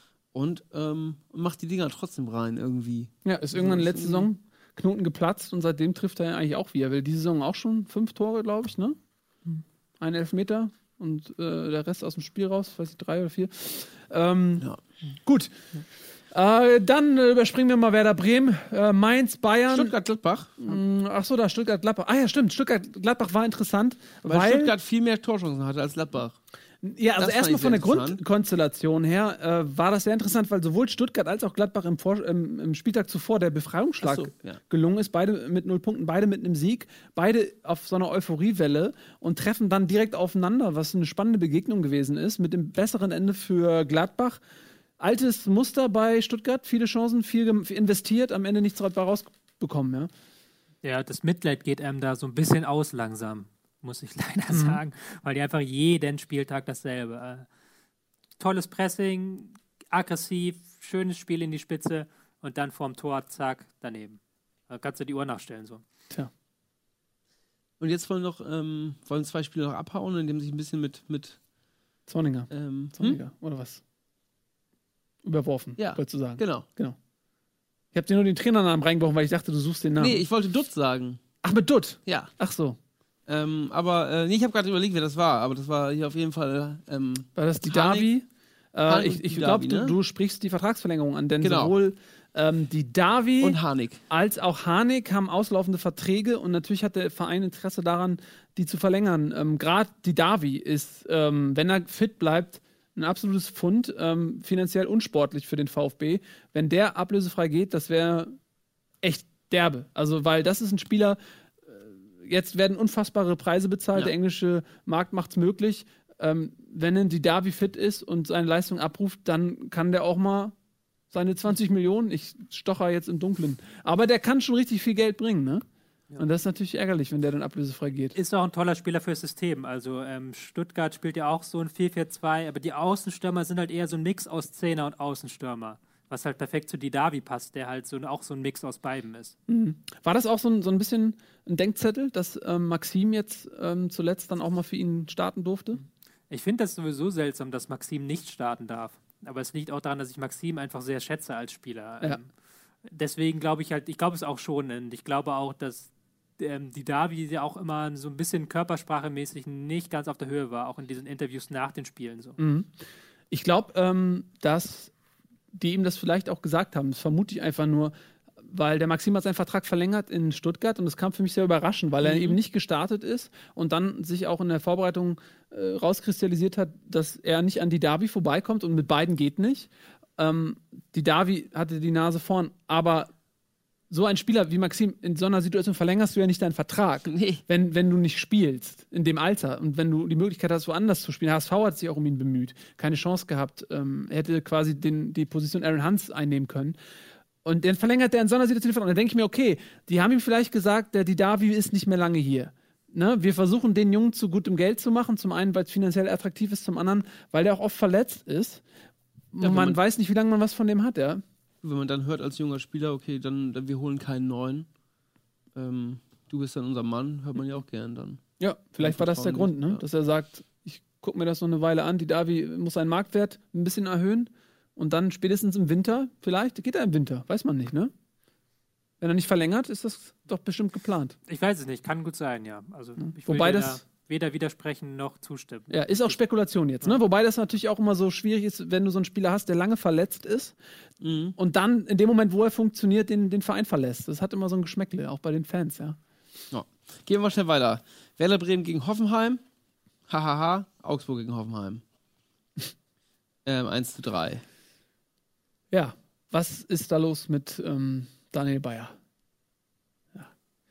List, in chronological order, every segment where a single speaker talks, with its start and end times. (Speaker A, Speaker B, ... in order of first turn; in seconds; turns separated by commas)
Speaker A: 0.3-4.3, Speaker B: 3.2-8.9, Speaker B: 10.0-14.7, Speaker B: 15.2-15.5, Speaker B: 16.3-19.9, Speaker A: 19.7-20.8, Speaker B: 20.6-24.7, Speaker A: 24.3-26.4, Speaker B: 26.8-44.4, Speaker A: 27.2-28.2, Speaker A: 34.0-34.6, Speaker B: 45.0-50.1, Speaker C: 50.8-57.5, Speaker B: 54.5-54.8, Speaker C: 58.4-65.8, Speaker A: 67.8-71.4, Speaker B: 72.1-73.8, Speaker A: 72.5-73.2, Speaker B: 75.2-77.0, Speaker A: 75.8-76.7, Speaker B: 77.9-80.2, Speaker A: 80.0-81.2, Speaker B: 81.4-82.8, Speaker A: 82.1-82.3, Speaker A: 83.3-88.1, Speaker B: 87.4-108.4, Speaker A: 88.9-90.0, Speaker A: 91.4-91.7, Speaker A: 93.4-94.0, Speaker B: 109.0-111.2, Speaker B: 111.7-120.5, Speaker B: 121.1-125.6, Speaker B: 126.2-128.1, Speaker C: 128.1-139.3, Speaker B: 139.5-145.8, Speaker C: 146.3-152.3, Speaker C: 152.9-162.4, Speaker B: 162.4-162.7, Speaker B: 163.3-164.9, Speaker B: 165.5-167.9, Speaker B: 168.4-183.1, Speaker A: 172.0-172.4, Speaker B: 183.9-196.8, Speaker A: 187.1-187.4, Speaker B: 197.4-208.6, Speaker B: 209.3-211.2, Speaker A: 209.4-209.8, Speaker A: 211.6-214.7, Speaker A: 215.5-218.2, Speaker B: 218.4-227.9, Speaker A: 218.8-219.8, Speaker B: 229.0-231.2, Speaker C: 231.3-236.1, Speaker B: 233.1-233.8, Speaker B: 235.7-240.5, Speaker A: 241.0-241.3, Speaker B: 241.4-246.0, Speaker A: 246.5-249.4, Speaker A: 250.1-251.8, Speaker A: 253.4-254.4, Speaker B: 255.7-258.9